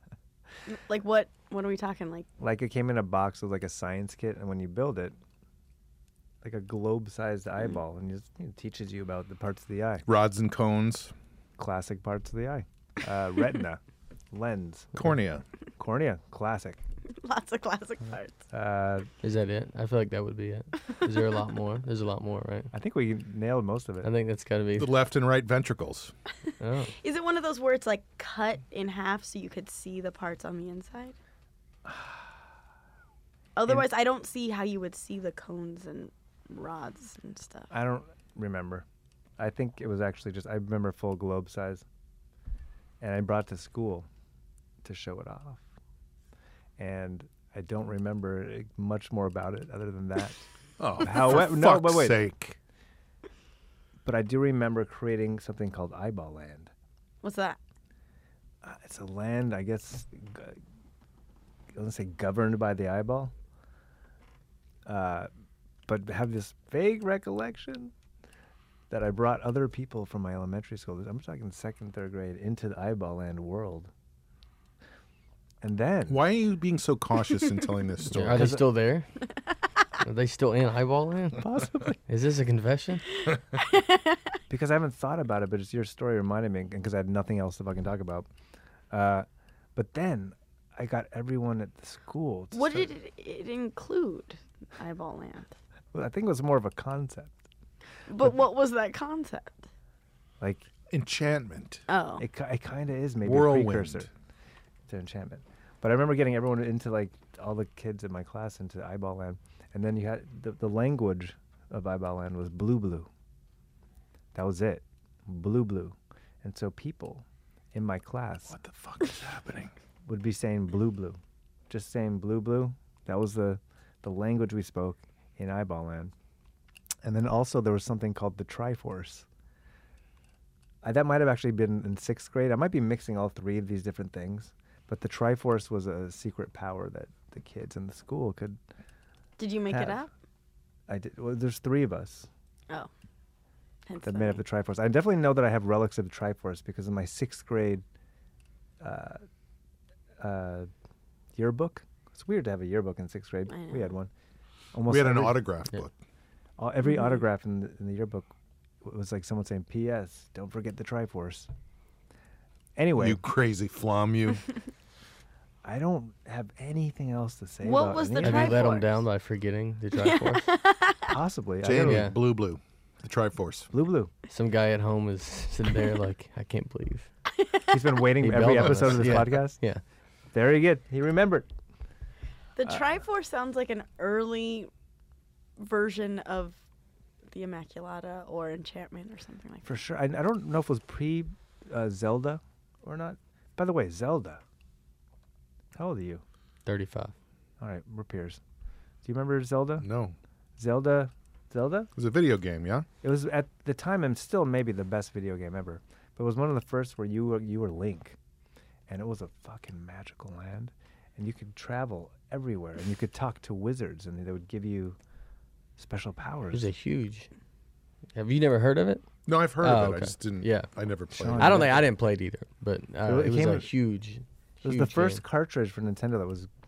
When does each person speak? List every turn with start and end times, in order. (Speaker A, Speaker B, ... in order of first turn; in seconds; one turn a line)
Speaker A: 0.7-2.3
Speaker B: 2.4-5.2
Speaker B: 6.4-10.1
Speaker C: 10.1-11.1
Speaker B: 11.6-13.8
Speaker B: 14.3-15.1
Speaker C: 14.9-15.4
Speaker B: 15.8-16.8
Speaker A: 17.1-18.4
Speaker B: 18.5-19.1
Speaker D: 19.2-22.7
Speaker B: 22.7-24.1
Speaker D: 24.0-24.9
Speaker C: 24.8-26.1
Speaker D: 26.6-26.9
Speaker A: 27.0-31.1
Speaker B: 31.9-32.3
Speaker A: 33.5-37.7
Speaker B: 37.7-38.9
Speaker B: 39.4-41.8
Speaker B: 43.0-44.1
Speaker B: 44.8-45.6
Speaker B: 46.8-50.4
Speaker C: 50.8-52.6
Speaker B: 51.0-52.2
Speaker B: 54.0-56.7
Speaker A: 57.2-57.6
Speaker B: 58.6-60.6
Speaker B: 61.7-63.3
Speaker B: 64.9-65.3
Speaker B: 65.9-67.9
Speaker B: 68.9-73.9
Speaker B: 75.6-76.2
Speaker C: 76.1-78.6
Speaker D: 78.1-79.1
Speaker B: 78.3-78.7
Speaker D: 80.0-81.4
Speaker B: 81.4-82.0
Speaker D: 82.1-83.0
Speaker A: 83.5-84.2
Speaker B: 84.5-88.3
Speaker B: 88.9-92.9
Speaker A: 92.5-95.5
Speaker B: 95.9-97.4
Speaker A: 98.1-99.7
Speaker B: 100.4-100.7
Speaker C: 100.9-101.8
Speaker A: 101.9-102.2
Speaker B: 102.2-104.1
Speaker C: 103.2-104.1
Speaker B: 104.9-113.1
Speaker B: 114.3-118.6
Speaker C: 118.5-119.7
Speaker B: 120.0-126.1
Speaker B: 127.0-129.3
Speaker B: 130.8-138.6
Speaker A: 139.4-140.1
Speaker B: 139.7-140.1
Speaker B: 140.9-142.3
Speaker A: 143.9-144.4
Speaker B: 144.0-147.8
Speaker B: 148.8-149.2
Speaker B: 150.2-150.7
Speaker B: 151.4-154.1
Speaker A: 153.5-153.9
Speaker B: 154.7-155.4
Speaker C: 154.9-155.9
Speaker B: 156.6-158.3
Speaker B: 158.8-161.5
Speaker B: 162.8-163.2
Speaker C: 163.0-164.4
Speaker B: 165.6-168.7
Speaker A: 167.6-169.0
Speaker D: 168.2-170.4
Speaker A: 169.9-171.1
Speaker B: 171.1-172.1
Speaker C: 171.6-173.7
Speaker D: 171.7-172.1
Speaker B: 173.7-174.1
Speaker D: 174.3-177.1
Speaker A: 177.4-177.7
Speaker B: 177.7-179.6
Speaker D: 178.2-179.8
Speaker C: 178.6-179.2
Speaker B: 180.3-181.5
Speaker A: 182.6-184.7
Speaker A: 185.6-186.6
Speaker A: 187.3-189.7
Speaker B: 189.6-194.4
Speaker B: 195.7-196.2
Speaker D: 196.7-197.1
Speaker B: 197.6-198.4
Speaker B: 199.0-199.9
Speaker C: 199.8-200.1
Speaker B: 200.6-201.9
Speaker C: 201.9-202.9
Speaker B: 203.0-208.2
Speaker B: 208.9-215.0
Speaker B: 215.8-216.7
Speaker D: 216.5-217.3
Speaker D: 218.1-219.1
Speaker C: 219.3-221.8
Speaker D: 219.6-220.7
Speaker B: 221.1-221.9
Speaker D: 221.4-225.2
Speaker B: 223.1-223.7
Speaker B: 224.6-226.5